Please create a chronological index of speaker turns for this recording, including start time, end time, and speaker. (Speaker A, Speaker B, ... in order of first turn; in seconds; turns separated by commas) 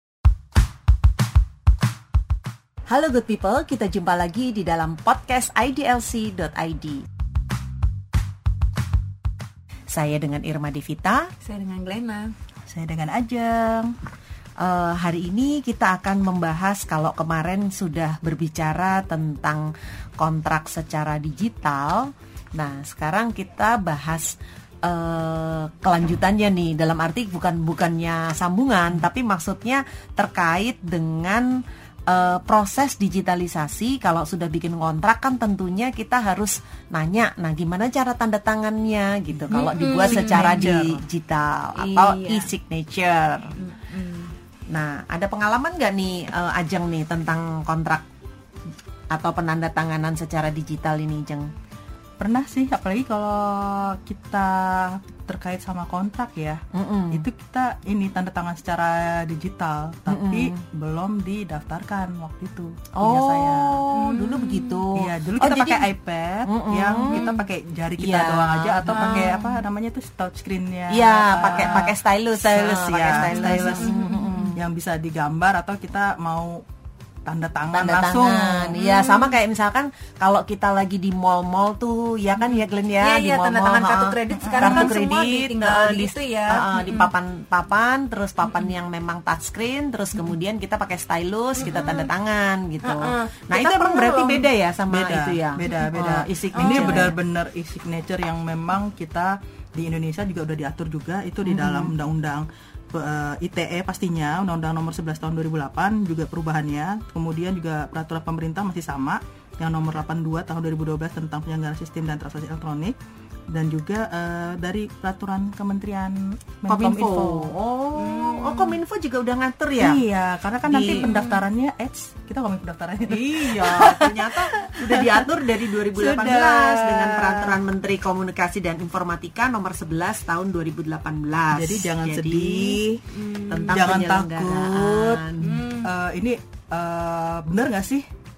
Speaker A: 2.9-7.0, Speaker A: 9.9-11.3, Speaker B: 11.4-12.3, Speaker C: 12.7-13.9, Speaker A: 14.6-31.5, Speaker A: 32.1-43.5, Speaker B: 39.5-40.7, Speaker C: 40.1-41.1, Speaker B: 41.8-42.5, Speaker B: 43.6-44.3, Speaker A: 44.7-48.0, Speaker A: 49.1-51.5, Speaker C: 52.2-56.6, Speaker A: 56.7-57.2, Speaker C: 57.1-63.7, Speaker A: 60.1-60.6, Speaker A: 63.0-65.9, Speaker B: 63.9-64.8, Speaker C: 65.0-74.0, Speaker A: 66.5-67.2, Speaker B: 67.1-67.4, Speaker A: 68.0-69.4, Speaker B: 68.9-69.4, Speaker A: 70.9-74.6, Speaker B: 73.3-74.5, Speaker C: 74.6-76.7, Speaker C: 77.3-78.8, Speaker A: 77.7-97.1, Speaker B: 78.8-79.3, Speaker B: 83.0-87.1, Speaker C: 84.4-85.0, Speaker B: 91.6-92.1, Speaker B: 92.8-94.5, Speaker C: 94.9-113.0, Speaker B: 96.5-97.1, Speaker A: 101.5-101.9, Speaker C: 113.5-117.5, Speaker A: 116.7-120.0, Speaker B: 118.0-118.8, Speaker C: 119.8-127.6, Speaker A: 120.7-121.1, Speaker B: 120.8-121.4, Speaker A: 123.1-132.8, Speaker C: 131.5-133.0, Speaker B: 133.1-133.9, Speaker A: 133.5-135.6, Speaker C: 133.7-138.1, Speaker B: 135.4-135.9